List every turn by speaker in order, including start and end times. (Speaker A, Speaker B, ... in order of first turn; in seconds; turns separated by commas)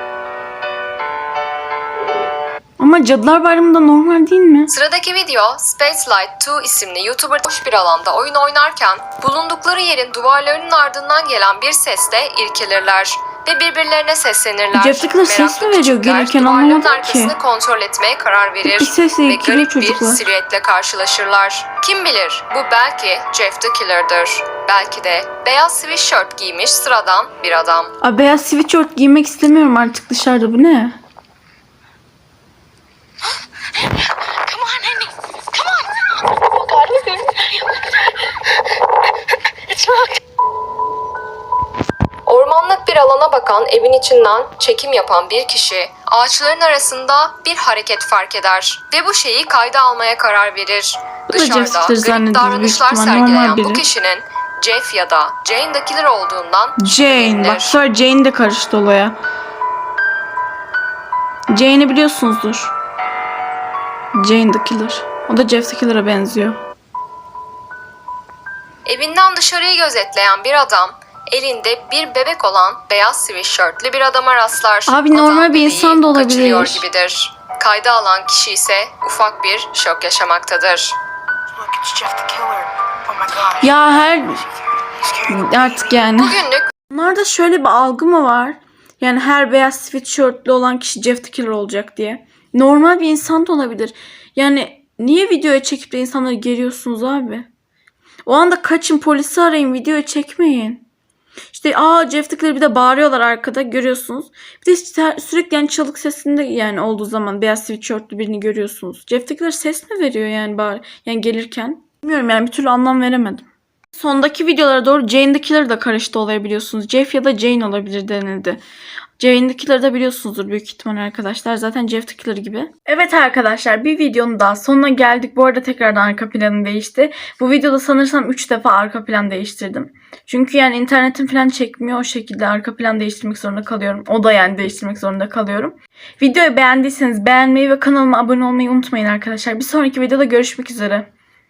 Speaker A: 2.8-4.7, Speaker B: 4.7-27.9, Speaker A: 14.7-17.3, Speaker A: 18.6-20.3, Speaker A: 28.0-30.9, Speaker C: 34.4-38.1, Speaker C: 39.7-40.1, Speaker B: 42.2-57.8, Speaker A: 51.3-53.8, Speaker A: 56.8-59.1, Speaker A: 61.5-62.7, Speaker A: 64.1-66.6, Speaker B: 68.8-81.0, Speaker A: 74.9-76.8, Speaker C: 81.6-83.5, Speaker A: 83.5-84.5, Speaker A: 85.1-97.5, Speaker B: 86.2-86.7, Speaker A: 98.2-100.8, Speaker A: 101.5-118.6, Speaker A: 119.2-141.1